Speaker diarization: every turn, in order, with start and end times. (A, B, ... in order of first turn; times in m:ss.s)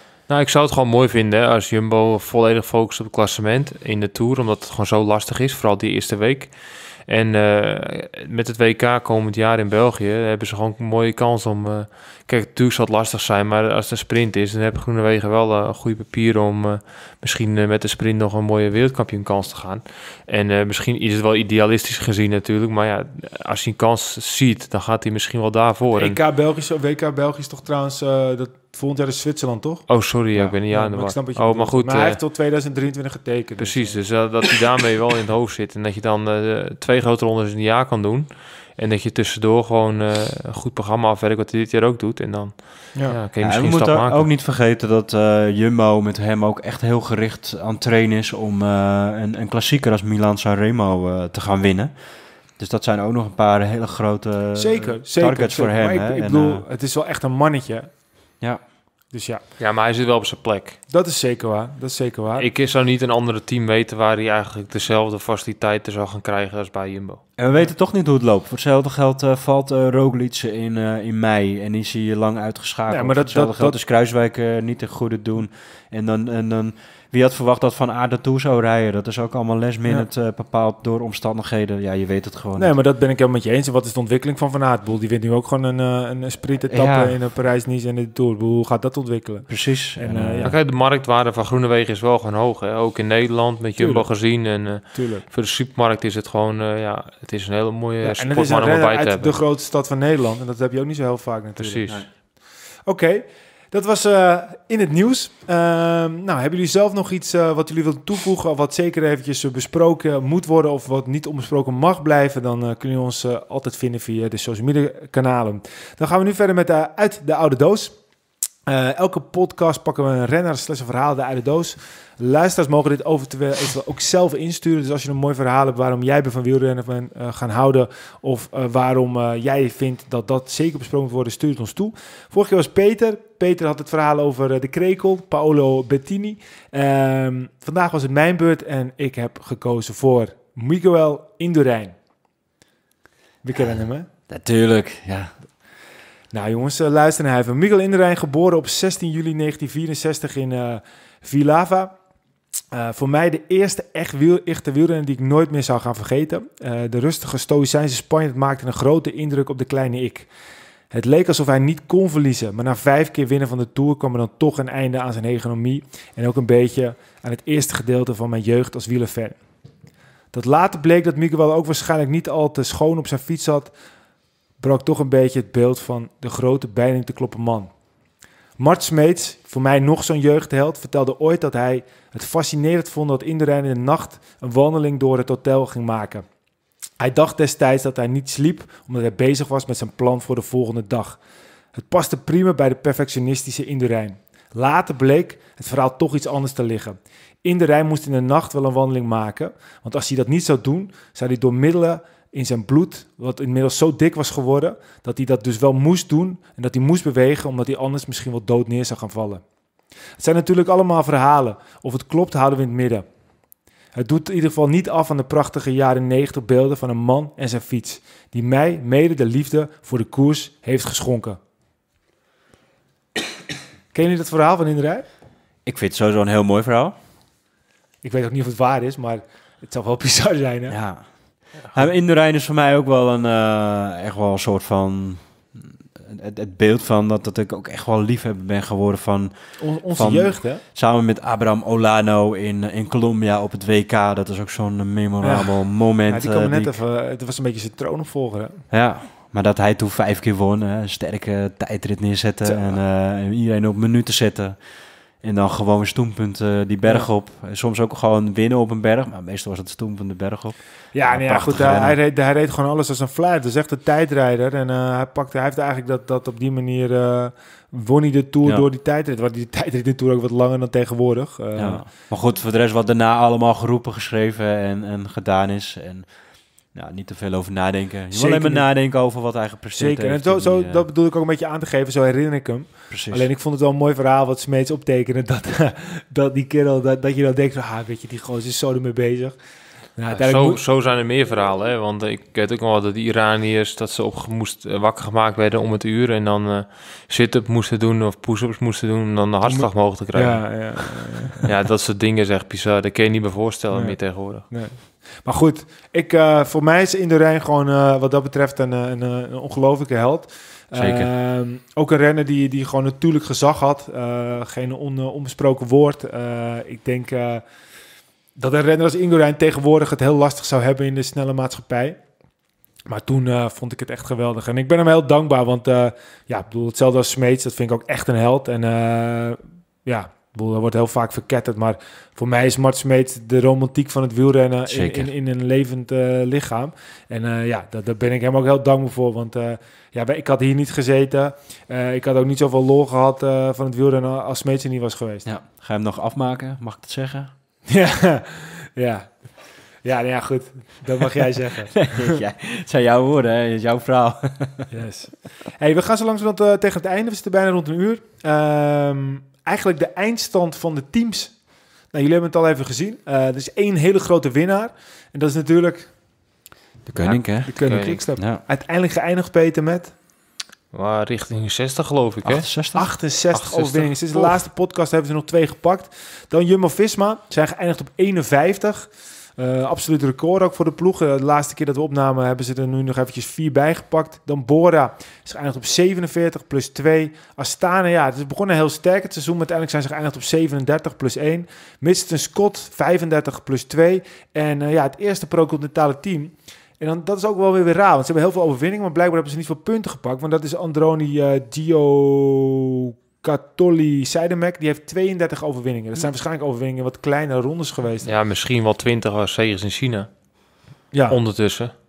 0:00.3-0:26.2 A
0:26.0-0:34.0 B
0:29.9-0:32.2 A
0:33.6-0:44.2 A
0:43.4-0:56.6 C
0:54.5-0:57.9 B
0:59.1-0:59.4 B
0:59.6-1:00.8 A
1:00.9-1:02.5 B
1:02.4-1:07.2 A
1:07.4-1:22.7 C
1:12.9-1:13.8 B
1:22.6-1:30.6 B
1:26.7-1:27.2 C
1:29.5-1:30.6 C
1:30.4-1:39.4 A
1:33.8-1:34.1 B
1:34.9-1:35.2 B
1:38.0-1:42.3 B
1:41.6-1:42.0 A
1:42.8-1:58.0 B
1:58.6-2:21.9 B
2:23.4-2:24.1 B
2:24.3-2:25.3 C
2:26.3-2:31.9 B
2:32.7-2:40.3 B
2:40.9-2:49.4 B
2:50.3-2:53.7 B
2:54.6-2:57.7 B
2:58.6-3:06.2 B
3:07.0-3:11.2 B
3:11.7-3:29.4 B
3:30.2-3:33.0 B
3:33.9-3:41.4 B
3:43.9-3:45.0 B
3:45.6-3:47.0 C
3:48.0-3:50.8 B
3:50.7-4:06.7 C
3:59.6-4:00.6 B
4:05.2-4:08.6 B
4:08.7-4:22.0 C
4:12.4-4:12.8 B
4:16.8-4:17.1 B
4:20.9-4:31.8 B
4:31.6-4:40.8 C
4:38.1-4:38.9 B
4:39.7-4:49.4 B
4:42.9-4:43.3 C
4:49.9-4:50.6 B
4:50.1-5:00.8 A
4:59.4-5:01.4 B
5:01.4-5:04.5 A
5:03.7-5:17.4 B
5:10.7-5:11.1 C
5:18.4-5:22.0 B
5:22.9-5:45.2 B
5:34.7-5:35.1 C
5:45.2-5:47.3 C
5:47.7-5:52.2 B
5:51.8-5:54.7 C
5:54.7-6:06.2 B
6:06.9-6:08.4 C
6:07.0-6:09.9 B
6:07.6-6:08.0 A
6:10.7-6:12.7 A
6:12.2-6:12.9 C
6:12.7-6:48.1 B
6:13.3-6:14.4 A
6:48.0-6:50.1 A
6:50.9-6:51.2 B
6:51.1-6:51.7 A